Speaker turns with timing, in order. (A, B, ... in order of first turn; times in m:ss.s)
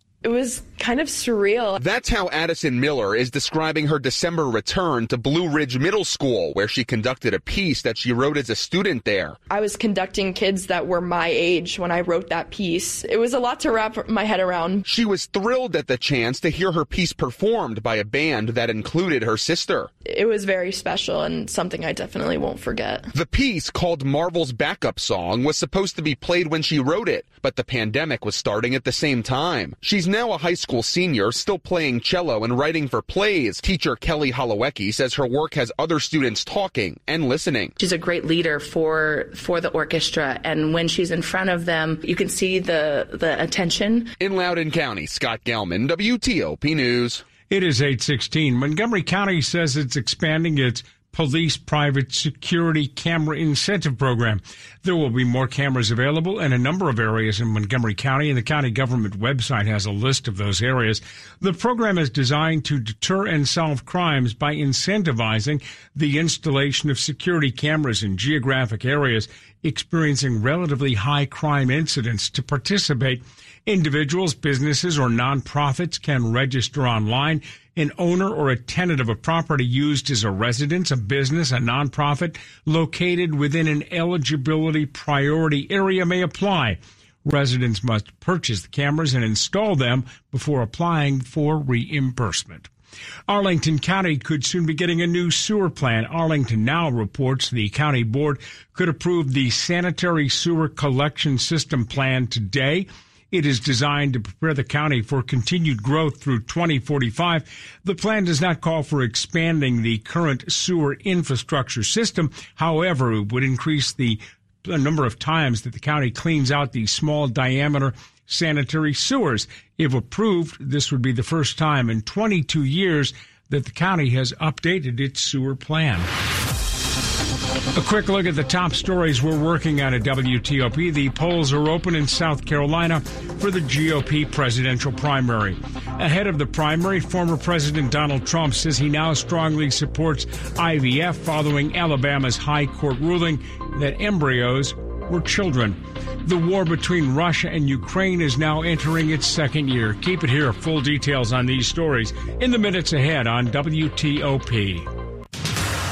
0:00.2-0:01.8 A
0:01.8-0:09.4 B
0:09.5-0:14.8 A
0:14.8-0:19.9 B
0:20.0-0:23.1 A
0:23.1-0:37.7 B
0:37.8-0:44.1 C
0:44.2-0:47.2 B
0:47.5-1:32.7 D
1:33.3-2:06.1 D
2:07.8-2:34.9 D